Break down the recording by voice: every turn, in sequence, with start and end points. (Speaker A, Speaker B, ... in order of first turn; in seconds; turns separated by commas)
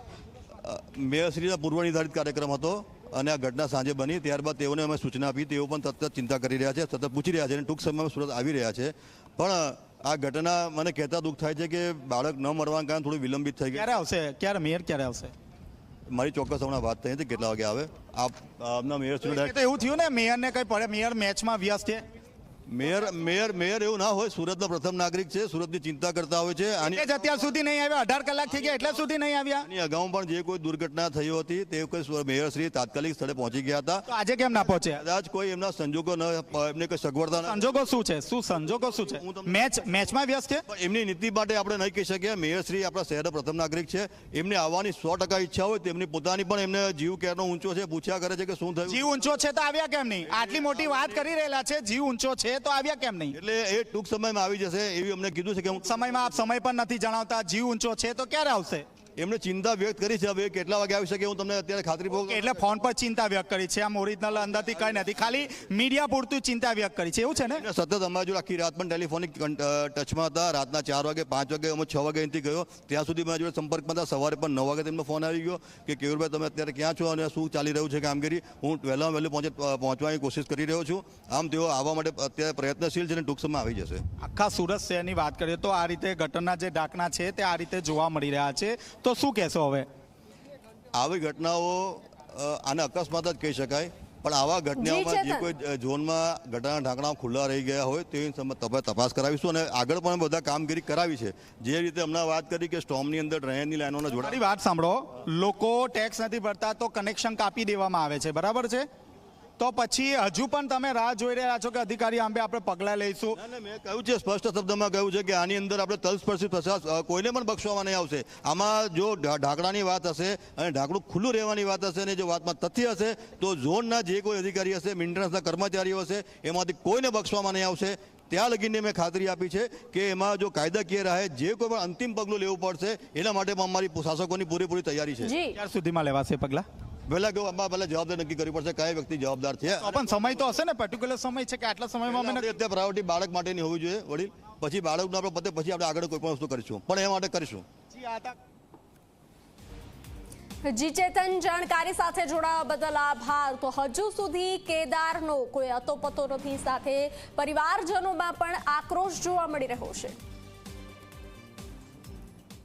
Speaker A: 0.6-13.9, Speaker B: 13.7-15.3, Speaker A: 16.1-19.6, Speaker B: 19.2-22.0, Speaker A: 22.7-27.4, Speaker B: 26.9-29.7, Speaker A: 29.6-34.1, Speaker B: 34.1-35.0, Speaker A: 34.8-37.6, Speaker B: 37.4-40.6, Speaker A: 38.8-40.1, Speaker A: 40.7-49.2, Speaker B: 48.9-53.4, Speaker A: 50.3-51.2, Speaker A: 53.3-56.4, Speaker B: 55.8-58.9, Speaker A: 59.2-62.6, Speaker B: 62.3-67.7, Speaker A: 64.5-65.7, Speaker A: 67.5-84.0, Speaker B: 84.2-89.9, Speaker A: 90.9-104.4, Speaker C: 94.8-95.5, Speaker B: 104.2-108.9, Speaker B: 109.6-113.4, Speaker A: 113.3-135.3, Speaker C: 135.2-135.6, Speaker B: 135.6-136.7, Speaker A: 137.1-140.2, Speaker B: 139.8-142.5, Speaker A: 142.1-147.7, Speaker B: 147.9-148.4, Speaker C: 150.7-160.2